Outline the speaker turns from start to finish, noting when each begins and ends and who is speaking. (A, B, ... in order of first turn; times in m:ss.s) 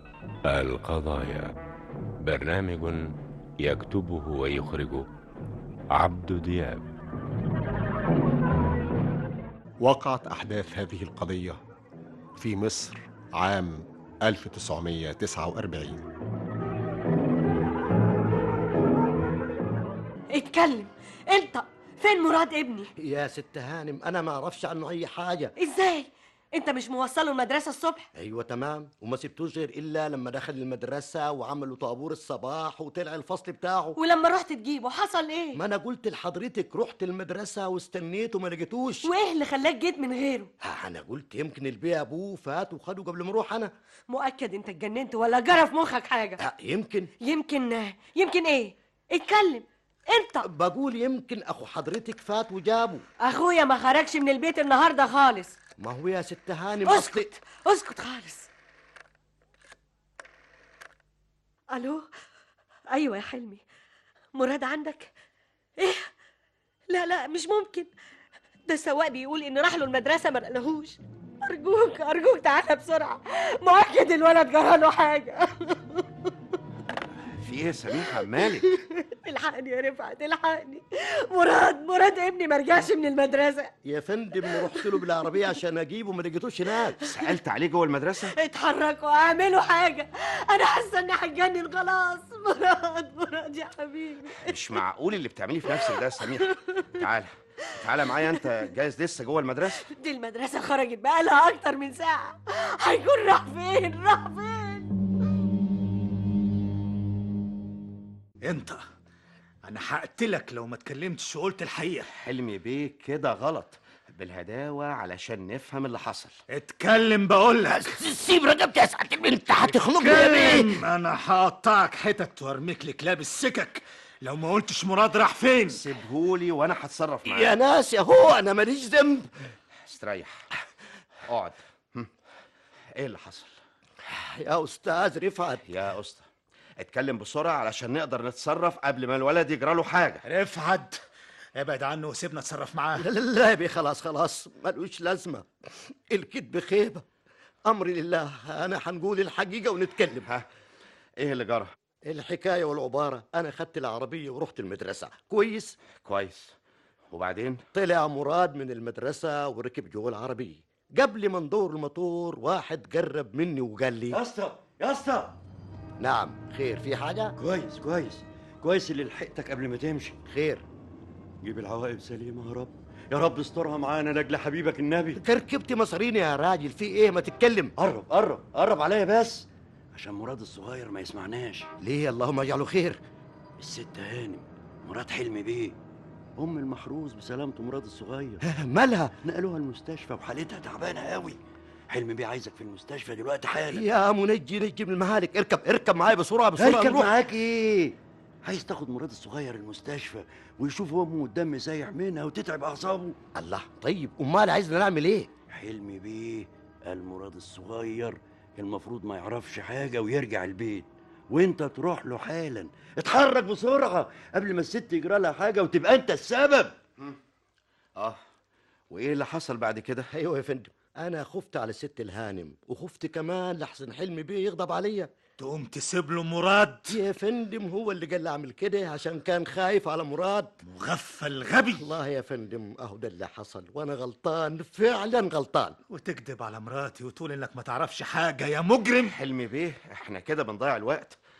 0:00.5-0:01.5 A
0:02.2-0:03.1 A
0:03.6-0:05.1 A
0:06.0-0:06.9 A
0:09.8-0:11.6 B
0:12.4-0:16.0 B
0:20.3-0:22.9 C
0:23.0-0:25.5 D
0:25.6-0:28.1 C
0:28.2-0:34.0 D
0:34.0-0:35.6 C
0:35.6-0:39.1 D
0:39.0-0:40.5 C
0:40.6-0:43.7 D
0:44.1-0:46.4 C
0:46.4-0:47.1 D
0:47.2-0:50.5 C
0:50.4-0:53.0 D
0:53.2-0:55.6 C
0:55.8-0:57.3 D
0:56.9-0:58.5 C
1:01.7-1:02.1 C
1:02.9-1:03.6 C
1:04.4-1:05.1 C
1:05.8-1:06.1 C
1:06.9-1:07.9 C
1:08.7-1:16.3 C
1:17.4-1:18.7 E
1:18.4-1:23.7 C
1:23.8-1:27.0 D
1:27.0-1:28.3 E
1:28.3-1:34.6 C
1:34.4-1:39.9 E
1:35.8-1:36.8 C
1:39.8-1:44.9 C
1:48.4-1:48.8 F
1:49.6-1:52.1 F
1:52.1-1:56.4 E
1:56.5-1:58.0 F
1:57.8-2:00.8 D
1:59.6-2:05.8 F
2:05.7-2:07.5 E
2:07.3-2:09.3 D
2:09.9-2:10.5 E
2:11.3-2:12.1 E
2:12.9-2:13.6 E
2:14.1-2:15.6 D
2:15.7-2:16.3 E
2:16.8-2:20.2 E
2:20.2-2:21.0 F
2:21.6-2:23.1 F
2:23.0-2:27.0 D
2:27.7-2:30.3 D
2:31.2-2:31.7 E
2:32.1-2:35.8 D
2:36.0-2:36.6 E
2:37.1-2:37.6 E
2:37.7-2:44.2 D
2:44.1-2:45.4 G
2:46.0-2:47.4 D
2:47.4-2:50.2 G
2:50.3-2:50.6 D
2:51.4-2:55.2 G
2:55.2-2:57.7 D
2:57.8-3:01.7 G
3:01.8-3:03.0 D
3:03.6-3:05.8 G
3:06.4-3:08.4 G
3:08.4-3:09.2 D
3:09.2-3:11.4 G
3:11.9-3:13.8 G
3:13.7-3:17.1 D
3:16.6-3:23.2 G
3:23.4-3:25.3 D
3:25.5-3:36.8 G
3:38.0-3:38.2 E
3:38.9-3:40.1 E
3:40.1-3:45.1 D
3:45.4-3:47.0 F
3:46.9-3:50.6 D
3:50.6-3:51.9 F
3:51.7-3:55.8 D
3:55.9-3:59.1 F
3:59.0-4:01.2 E